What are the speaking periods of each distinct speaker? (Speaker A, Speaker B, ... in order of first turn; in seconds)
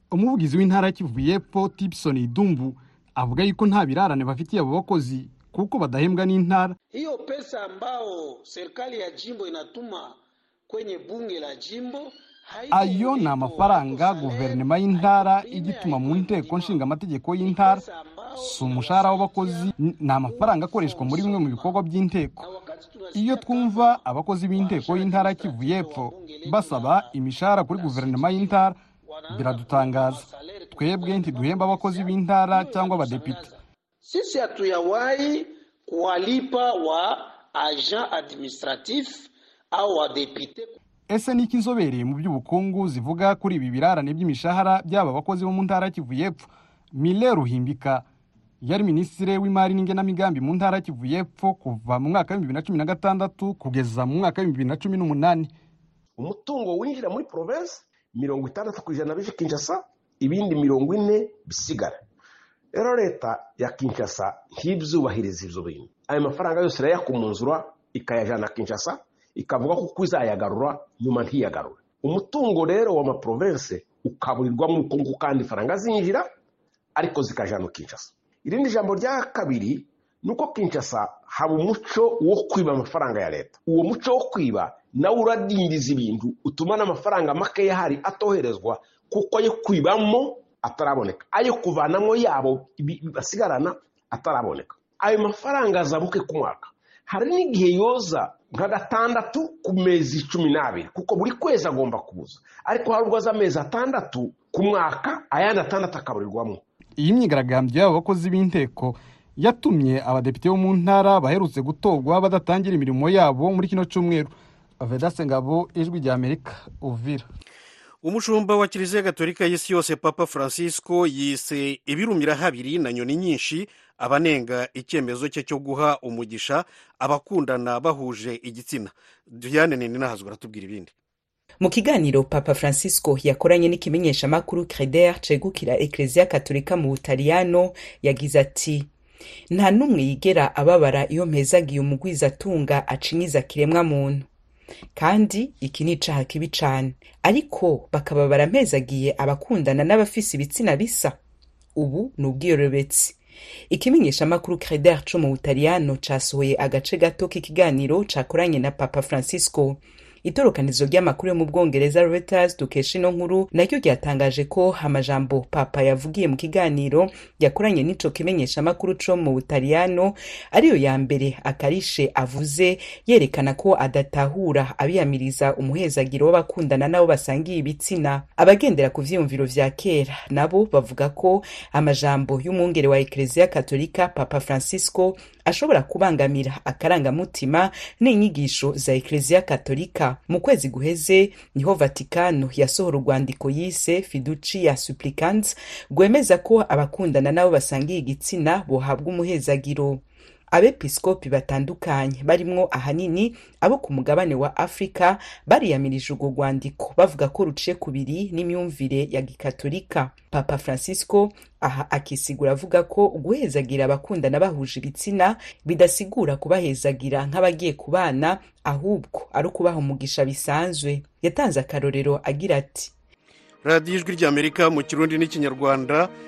Speaker A: 0.1-6.8, 12.7-17.8, 18.4-22.4, 23.1-28.8, 29.3-30.2, 30.8-33.4, 41.1-48.0, 48.6-55.5, 107.0-117.2
Speaker B: 6.9-16.9, 17.4-21.8, 22.4-27.1, 27.7-40.8
Speaker C: 56.2-62.0, 62.7-76.3, 77.0-106.6
Speaker D: 118.0-130.9, 223.6-226.1
Speaker E: 131.6-138.9, 139.5-144.3, 144.9-151.2, 151.8-153.2, 153.7-222.9